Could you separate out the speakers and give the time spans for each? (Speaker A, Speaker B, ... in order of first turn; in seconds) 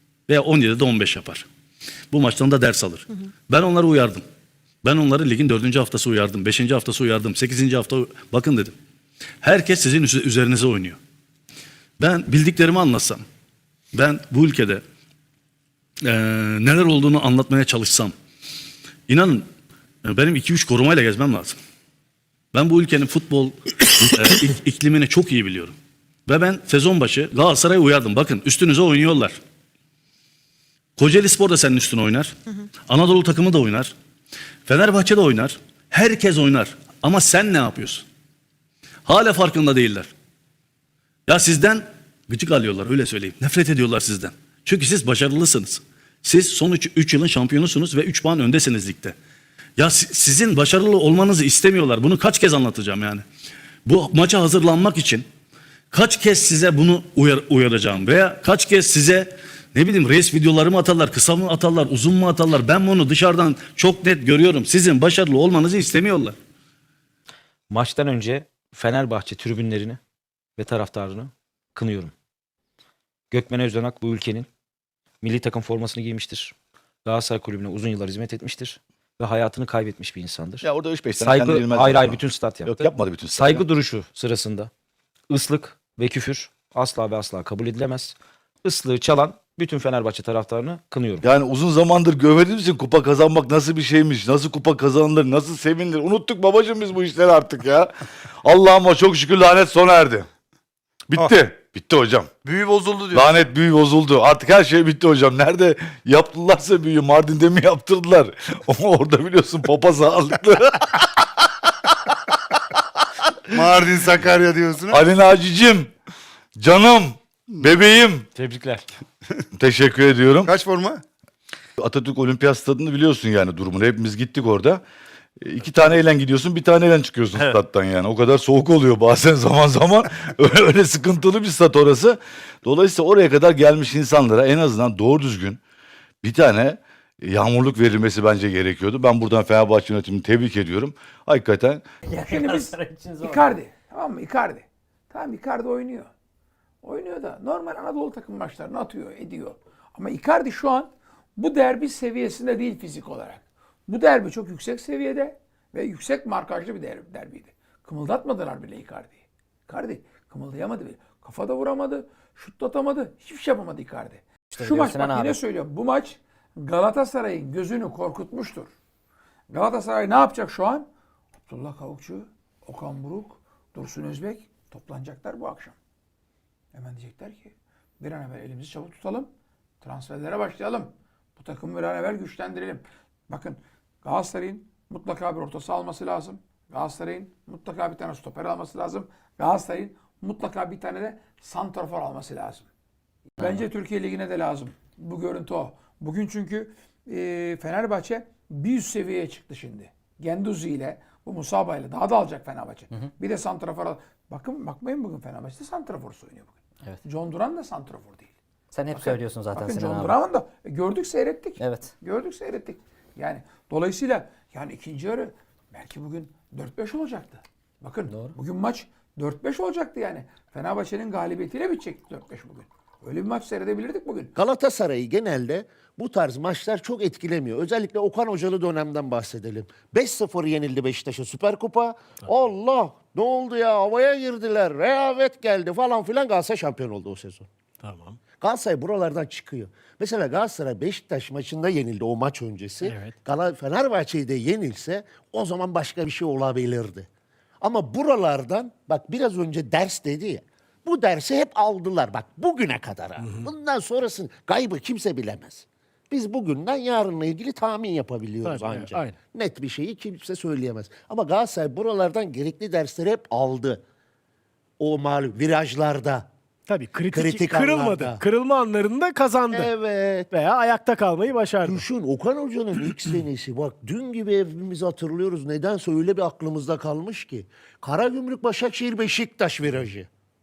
Speaker A: 0.3-1.5, 2.1-4.2, 4.8-8.7, 9.4-11.0, 12.0-13.2, 13.9-14.8, 16.0-18.1, 19.1-19.5, 20.0-21.6, 22.5-25.7, 26.3-29.4, 31.0-32.4, 32.9-33.9, 34.6-38.0, 39.0-40.1, 41.3-49.1, 49.8-53.2, 53.8-55.2, 55.9-66.3
Speaker B: 67.7-70.0, 70.6-72.1, 73.3-74.5, 75.2-76.5, 77.0-84.7, 85.3-91.2
Speaker C: 80.6-83.6, 91.2-97.9, 98.4-100.3, 101.1-102.3, 103.1-111.1, 114.9-115.9, 116.6-118.3, 119.5-120.5, 121.8-124.8, 125.4-135.6, 136.2-141.8
Speaker D: 102.5-103.2, 113.5-115.0, 120.4-121.0
Speaker E: 142.1-143.5, 164.5-165.4, 193.4-193.6, 208.7-210.2, 211.6-211.9, 218.1-218.3
Speaker F: 142.2-146.1, 146.8-168.7, 169.5-170.9, 171.5-175.8, 176.7-192.7, 193.4-208.3, 208.9-224.3
Speaker G: 224.3-237.5, 238.4-247.1, 247.6-263.8, 264.8-266.3, 267.1-268.2, 269.5-270.3, 271.6-280.1
Speaker H: 237.8-238.2, 242.8-243.1, 253.2-253.4, 258.4-259.1, 266.7-269.7, 270.3-271.8